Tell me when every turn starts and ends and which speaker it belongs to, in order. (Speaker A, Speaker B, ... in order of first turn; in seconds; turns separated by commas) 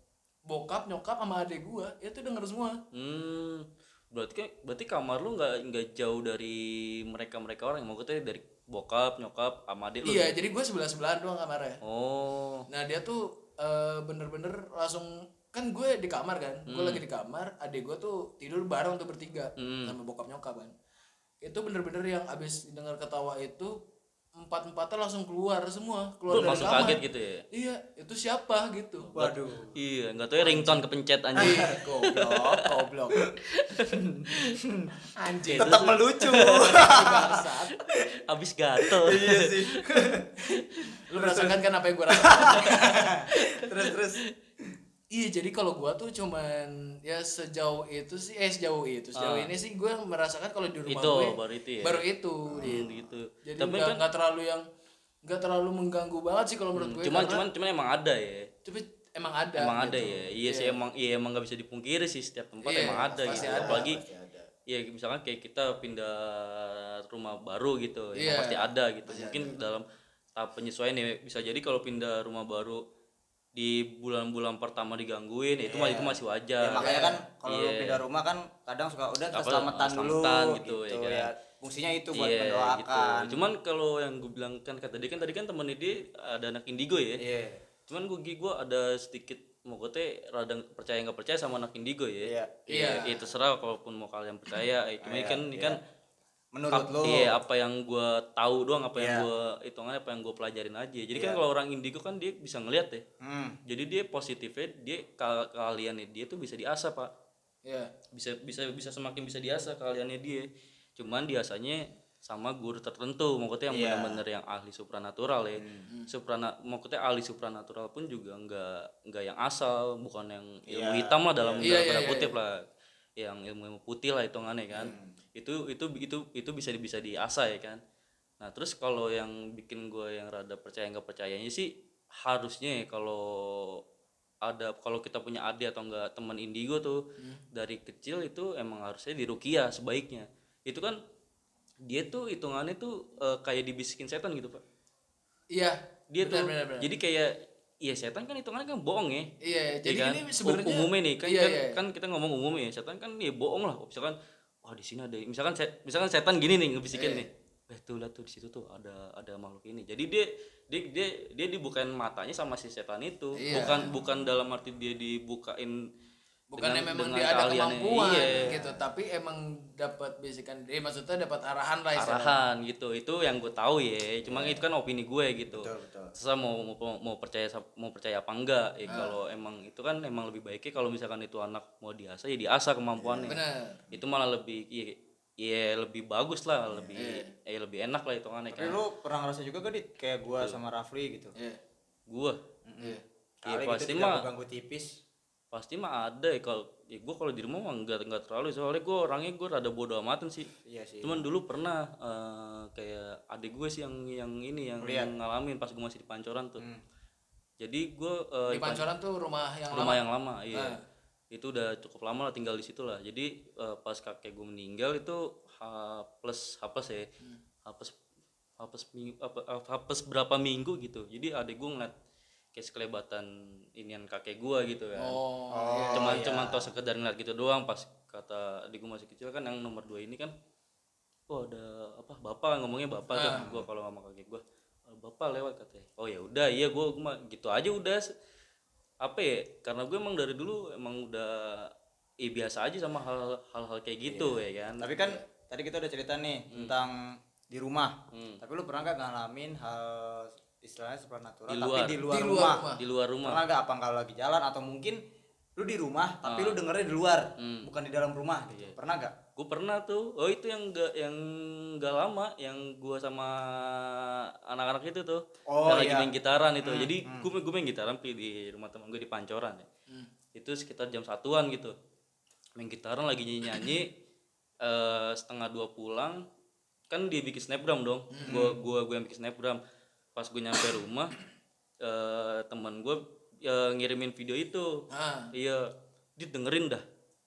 Speaker A: 0.5-2.8, Speaker B: 2.9-10.3, Speaker A: 10.0-11.8, Speaker B: 11.8-12.7, Speaker A: 12.7-20.7, Speaker B: 16.7-17.0, Speaker B: 19.6-19.9, Speaker A: 21.4-23.8, Speaker A: 24.4-29.1, Speaker B: 26.3-27.4, Speaker B: 29.1-32.4, Speaker C: 29.1-29.8, Speaker A: 30.4-30.9, Speaker C: 31.4-31.8, Speaker A: 31.4-33.2, Speaker B: 33.5-34.6, Speaker C: 33.9-34.9, Speaker A: 35.2-35.9, Speaker B: 35.5-36.8, Speaker C: 35.6-37.4, Speaker A: 36.6-37.8, Speaker B: 37.8-40.1, Speaker C: 38.8-40.3, Speaker A: 41.1-43.2, Speaker C: 41.1-41.6, Speaker C: 42.1-44.2, Speaker B: 42.5-42.8, Speaker B: 43.3-44.2, Speaker A: 45.1-52.8, Speaker B: 49.1-49.5, Speaker B: 50.9-52.0, Speaker C: 52.5-53.1, Speaker B: 52.6-54.0, Speaker A: 53.4-54.6, Speaker A: 55.2-57.4, Speaker B: 56.8-58.5, Speaker A: 58.6-60.8, Speaker B: 59.5-64.0, Speaker A: 62.6-63.9, Speaker C: 62.8-64.5, Speaker B: 64.7-69.8, Speaker A: 68.2-69.6, Speaker B: 70.3-72.8, Speaker B: 73.5-76.9, Speaker C: 75.6-83.5, Speaker A: 76.8-77.1, Speaker B: 77.5-78.0, Speaker B: 79.3-81.3, Speaker B: 82.1-87.2, Speaker C: 87.2-87.6, Speaker B: 87.9-95.8, Speaker C: 92.2-92.9, Speaker A: 92.7-93.2, Speaker C: 95.0-95.8, Speaker C: 96.5-97.4, Speaker B: 96.7-103.0, Speaker C: 98.9-99.3, Speaker C: 101.1-101.4, Speaker C: 103.2-103.6, Speaker B: 103.7-107.1, Speaker B: 108.1-122.6, Speaker C: 113.7-114.2, Speaker C: 115.6-115.8, Speaker C: 120.7-121.8, Speaker A: 121.6-122.3, Speaker B: 123.2-127.8, Speaker C: 124.7-125.1, Speaker B: 128.4-133.8, Speaker B: 134.4-141.0, Speaker B: 141.8-144.6, Speaker A: 145.5-146.9, Speaker B: 146.1-149.3, Speaker A: 149.4-151.8, Speaker B: 149.8-165.8, Speaker A: 156.9-157.3, Speaker A: 163.3-163.9, Speaker A: 166.5-172.3, Speaker B: 166.6-168.5, Speaker C: 168.2-168.8, Speaker B: 172.0-183.4, Speaker C: 174.2-174.6, Speaker C: 175.5-176.1, Speaker A: 178.9-179.2, Speaker C: 183.0-183.4, Speaker A: 183.3-183.8, Speaker B: 183.9-188.8, Speaker C: 186.7-186.9, Speaker A: 186.9-187.3, Speaker C: 188.5-191.3, Speaker B: 192.1-192.4, Speaker C: 192.6-194.9, Speaker B: 193.5-194.2, Speaker B: 195.5-200.5, Speaker C: 200.6-201.3, Speaker B: 201.0-206.6, Speaker C: 204.8-205.1, Speaker B: 207.6-208.8, Speaker A: 208.5-210.8, Speaker B: 209.7-210.8, Speaker B: 211.3-217.1, Speaker B: 217.7-217.9, Speaker B: 218.6-221.9, Speaker B: 222.5-225.2, Speaker A: 224.9-226.2, Speaker C: 225.5-226.7, Speaker B: 225.9-230.3, Speaker B: 231.3-238.1, Speaker A: 233.1-233.5, Speaker C: 233.3-233.7, Speaker B: 239.0-241.7, Speaker B: 242.2-245.1, Speaker C: 244.1-252.7, Speaker B: 248.1-248.4, Speaker B: 251.5-252.0, Speaker A: 252.1-252.8, Speaker B: 252.8-253.4, Speaker C: 253.2-255.0, Speaker C: 255.6-259.1, Speaker B: 256.2-256.6, Speaker B: 257.4-257.7, Speaker B: 259.4-269.6, Speaker C: 265.5-266.1, Speaker C: 266.6-267.3, Speaker B: 270.3-271.7, Speaker B: 272.6-273.9, Speaker B: 274.6-276.2, Speaker B: 276.9-279.6, Speaker A: 278.1-278.4, Speaker C: 278.3-278.6, Speaker B: 280.1-281.1, Speaker B: 281.8-285.6, Speaker A: 284.9-285.3, Speaker B: 286.2-286.8